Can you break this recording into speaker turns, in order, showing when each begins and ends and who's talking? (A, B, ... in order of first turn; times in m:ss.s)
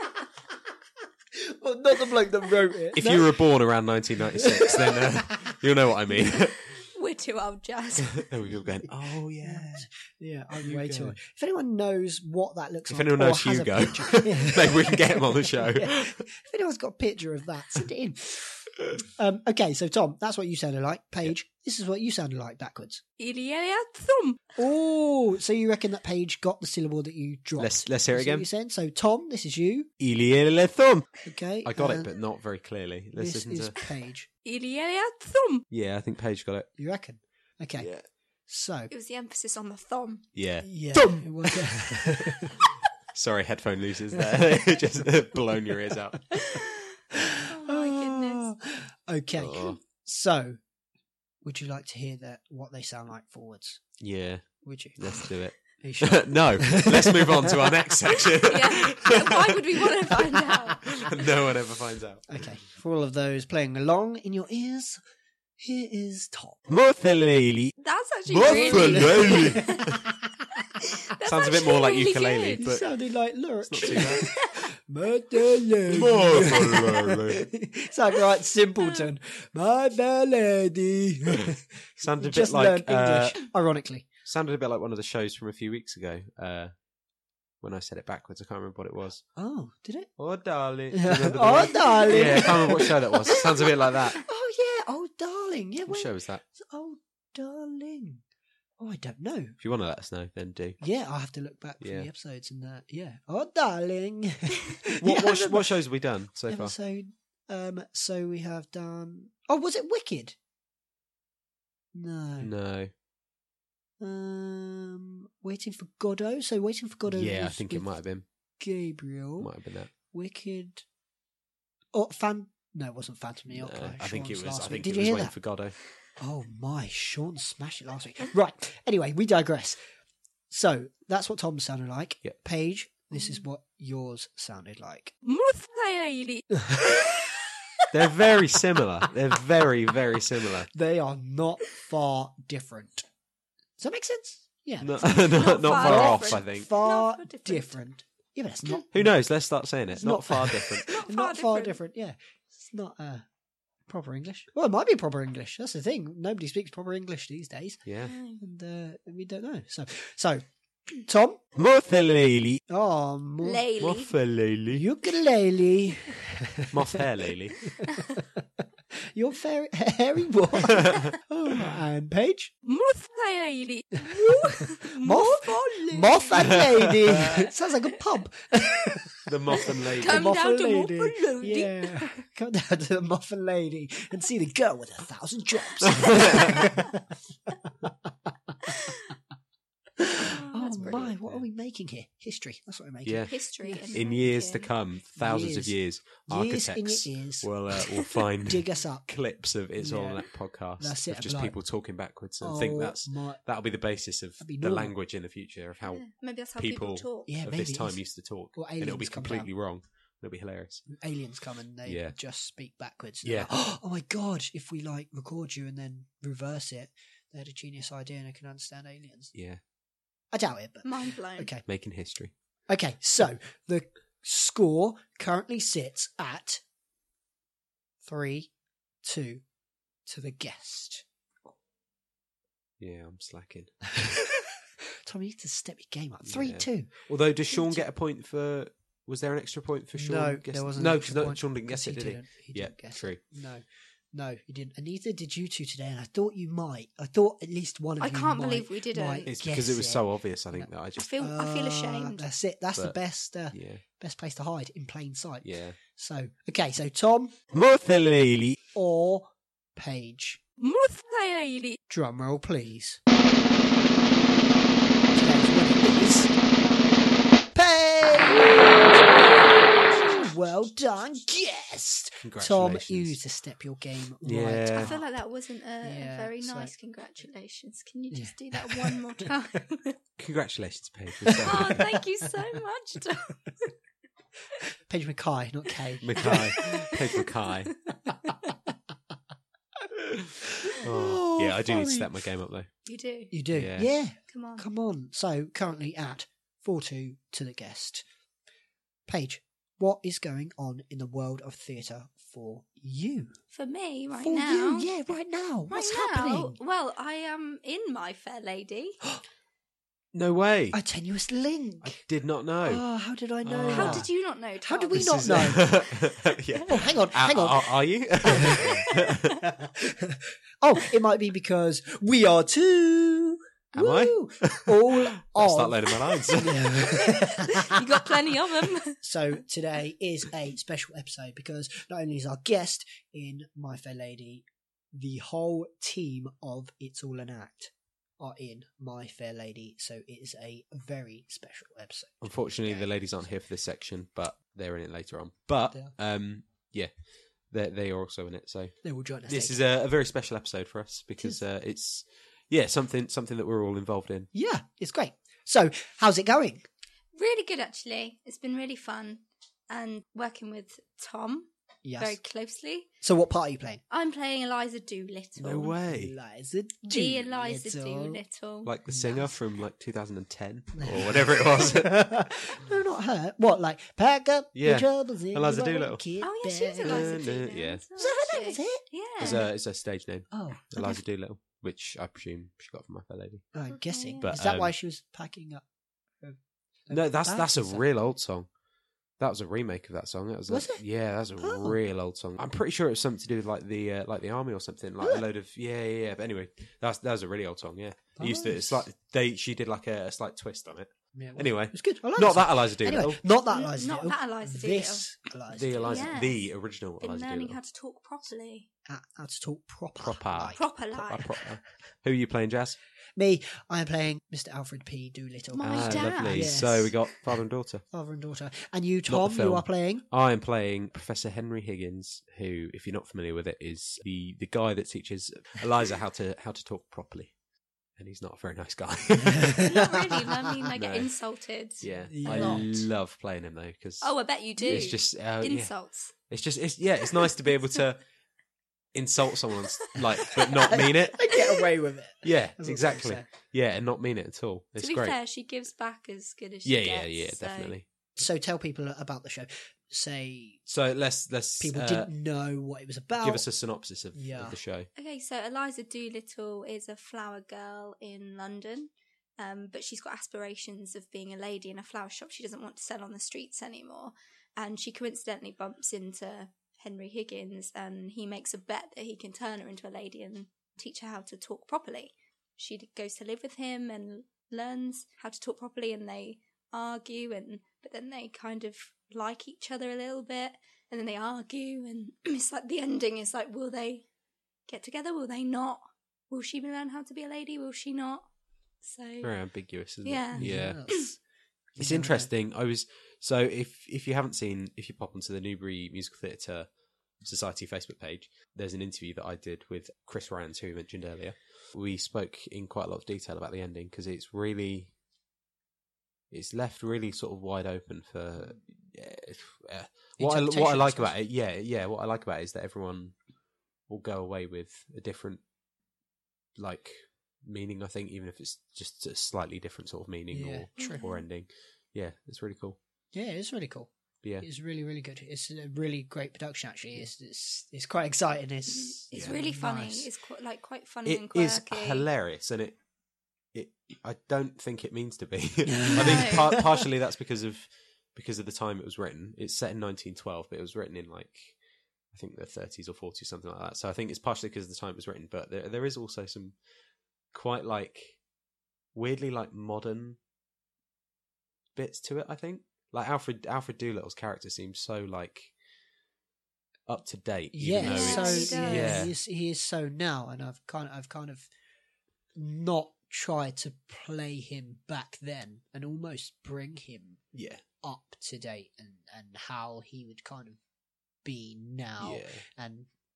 0:01.4-0:03.4 A
0:02.9-0:06.6 B
0:04.4-0:05.1 A
0:06.8-0:08.2 C
0:08.1-0:09.9 B
0:09.4-0:23.0 A
0:10.6-0:11.2 B
0:12.9-0:16.2 B
0:23.2-0:24.4 C
0:24.6-0:29.9 A
0:27.6-0:28.5 B
0:30.0-0:33.8 B
0:31.2-0:32.1 A
0:33.2-0:34.3 A
0:34.4-0:35.6 C
0:35.7-0:36.7 B
0:36.8-0:37.9 A
0:37.8-0:38.0 B
0:38.5-0:38.9 A
0:38.9-0:40.3 C
0:40.4-0:42.6 B
0:40.6-0:42.6 A
0:43.1-0:46.2 B
0:46.4-0:46.7 C
0:47.1-0:50.6 A
0:47.5-0:48.5 C
0:49.4-0:49.8 B
0:51.4-0:54.0 A
0:54.0-0:59.6 B
0:54.6-0:57.8 A
0:58.4-1:01.0 C
1:00.8-1:02.5 B
1:02.3-1:05.0 A
1:05.6-1:06.6 A
1:06.7-1:07.8 B
1:07.8-1:10.0 C
1:08.3-1:10.0 B
1:08.4-1:09.9 A
1:10.8-1:12.6 C
1:11.2-1:12.9 B
1:12.6-1:24.1 A
1:13.6-1:14.3 B
1:15.9-1:17.5 B
1:22.0-1:23.5 B
1:24.3-1:26.7 B
1:27.6-1:29.2 B
1:29.4-1:30.1 A
1:30.2-1:34.2 B
1:30.9-1:38.2 A
1:31.9-1:32.4 C
1:35.9-1:36.4 B
1:38.8-1:39.6 A
1:39.6-1:40.8 B
1:40.8-1:45.8 A
1:41.8-1:42.1 B
1:45.0-1:46.7 B
1:46.5-1:50.4 A
1:51.9-1:52.5 A
1:52.4-1:52.9 B
1:54.0-1:57.9 A
1:57.1-1:58.2 B
1:58.6-1:59.5 A
1:59.4-1:59.9 B
2:00.0-2:00.8 A
2:01.9-2:05.4 A
2:03.5-2:05.8 B
2:06.2-2:09.8 A
2:10.5-2:15.1 A
2:15.2-2:17.1 C
2:17.9-2:20.7 B
2:20.7-2:23.1 A
2:23.8-2:29.1 A
2:24.8-2:26.7 B
2:25.0-2:27.8 C
2:28.9-2:30.9 B
2:30.0-2:33.2 A
2:30.8-2:31.8 C
2:33.9-2:37.8 A
2:37.9-2:38.1 B
2:38.1-2:38.4 C
2:38.4-2:41.4 A
2:41.6-2:42.6 B
2:42.7-2:43.7 A
2:43.4-2:44.1 C
2:43.8-2:44.8 B
2:44.7-2:47.0 A
2:46.7-2:47.6 B
2:47.9-2:48.2 C
2:49.0-2:52.5 A
2:52.6-2:56.6 C
2:54.9-3:07.1 A
2:56.4-2:57.3 B
2:59.3-3:00.3 B
2:59.6-3:02.2 C
3:05.8-3:06.6 B
3:07.7-3:08.1 A
3:10.0-3:14.1 A
3:10.2-3:11.0 C
3:10.8-3:11.4 B
3:13.0-3:30.9 B
3:13.3-3:14.7 C
3:15.2-3:17.7 A
3:18.5-3:19.1 A
3:19.8-3:21.6 A
3:22.4-3:23.4 A
3:24.4-3:24.9 A
3:25.8-3:27.3 C
3:27.3-3:29.5 A
3:30.9-3:39.3 A
3:31.9-3:32.2 B
3:33.2-3:33.5 B
3:39.4-3:39.6 B
3:40.3-3:41.6 A
3:40.8-3:41.5 C
3:41.7-3:42.3 B
3:42.7-3:46.6 A
3:48.0-3:48.5 A
3:49.0-3:49.4 A
3:50.1-3:51.1 A
3:52.8-3:54.0 B
3:55.1-3:57.8 A
3:56.3-4:03.2 B
4:00.0-4:17.4 A
4:08.0-4:09.3 C
4:09.3-4:11.1 B
4:11.0-4:12.3 C
4:13.5-4:13.8 B
4:15.4-4:15.8 B
4:17.5-4:18.6 B
4:18.7-4:20.4 A
4:20.6-4:21.8 C
4:21.9-4:23.0 A
4:25.1-4:26.3 A
4:27.5-4:35.1 A
4:32.2-4:33.2 B
4:34.2-4:35.0 B
4:34.8-4:40.0 C
4:35.8-4:36.7 A
4:38.1-4:39.3 A
4:40.2-4:41.8 B
4:41.2-4:41.9 A
4:41.4-4:43.7 C
4:44.9-4:46.6 A
4:46.0-4:47.7 B
4:46.2-4:47.2 C
4:48.1-4:48.5 A
4:50.1-4:52.7 B
4:50.8-4:52.1 A
4:52.9-4:53.3 C
4:53.3-4:58.0 A
4:53.5-4:53.9 B
4:54.3-4:54.6 C
4:59.1-5:03.4 A
5:03.5-5:04.9 C
5:04.1-5:06.6 A
5:05.7-5:09.0 C
5:10.1-5:10.8 B
5:10.7-5:12.0 A
5:11.8-5:12.8 B
5:12.6-5:14.1 A
5:13.4-5:14.1 B
5:13.7-5:15.8 C
5:14.6-5:15.8 A
5:14.9-5:19.4 B
5:16.7-5:28.1 A
5:18.6-5:19.3 C
5:23.7-5:27.0 B
5:27.0-5:29.0 C
5:29.0-5:43.0 A
5:42.2-5:46.9 B
5:47.5-5:54.3 B
5:48.8-5:49.6 A
5:54.3-5:56.7 A
5:57.1-6:02.9 C
6:01.8-6:02.2 A
6:03.0-6:03.8 A
6:03.9-6:05.8 C
6:05.4-6:06.1 B
6:05.8-6:08.2 A
6:06.9-6:08.7 C
6:08.6-6:12.2 B
6:08.9-6:09.4 A
6:10.8-6:17.3 A
6:14.5-6:16.0 B
6:16.2-6:19.5 C
6:16.8-6:17.8 B
6:18.0-6:19.5 A
6:19.2-6:23.5 B
6:20.3-6:21.0 A
6:23.5-6:25.6 A
6:23.7-6:24.3 C
6:24.2-6:24.7 B
6:26.2-6:27.8 A
6:26.9-6:28.5 B
6:29.2-6:43.2 B
6:30.5-6:30.8 A
6:31.4-6:31.8 A
6:35.0-6:35.2 A
6:38.2-6:38.9 A
6:41.1-6:46.2 A
6:43.5-6:45.1 C
6:45.5-6:47.6 B
6:45.8-6:46.5 C
6:47.0-6:48.7 C
6:48.9-6:50.7 A
6:50.0-6:52.8 B
6:50.6-6:51.3 C
6:53.2-6:57.0 A
6:55.5-6:56.6 C
6:55.6-6:57.8 B
6:57.9-7:00.0 A
6:59.1-7:07.4 B
7:08.0-7:09.7 B
7:09.3-7:09.9 A
7:09.6-7:12.6 C
7:10.8-7:11.1 B
7:11.8-7:18.0 B
7:12.1-7:12.9 A
7:14.0-7:16.1 C
7:14.6-7:14.9 A
7:18.9-7:21.3 B
7:19.9-7:20.4 C
7:20.5-7:23.3 A
7:22.2-7:25.2 B
7:24.8-7:27.8 C
7:26.6-7:27.9 B
7:28.2-7:30.6 A
7:30.7-7:32.1 B
7:31.6-7:33.5 A
7:33.2-7:34.9 B
7:34.1-7:34.6 A
7:35.0-8:04.1 C
8:04.7-8:08.3 C
8:08.8-8:09.3 C
8:09.2-8:10.9 B
8:10.0-8:11.1 C
8:10.4-8:11.2 A
8:11.8-8:12.3 A
8:11.8-8:16.7 B
8:17.2-8:24.9 B
8:26.3-8:33.1 B
8:30.2-8:31.1 A
8:33.9-8:35.4 B
8:36.6-8:42.8 B
8:40.3-8:41.0 A
8:40.8-8:41.2 C
8:43.1-8:50.1 A
8:48.7-8:52.1 C
8:51.1-8:52.8 B
8:53.5-9:01.6 B
8:55.7-8:56.8 A
8:56.0-8:56.5 C
9:02.1-9:06.6 B
9:07.3-9:08.2 B
9:08.9-9:10.2 B
9:11.8-9:15.5 B
9:16.9-9:19.1 B
9:17.5-9:21.5 A
9:17.8-9:19.1 C
9:22.4-9:27.2 A
9:27.3-9:27.6 B
9:27.8-9:30.6 A
9:31.2-9:32.9 A
9:32.0-9:32.4 B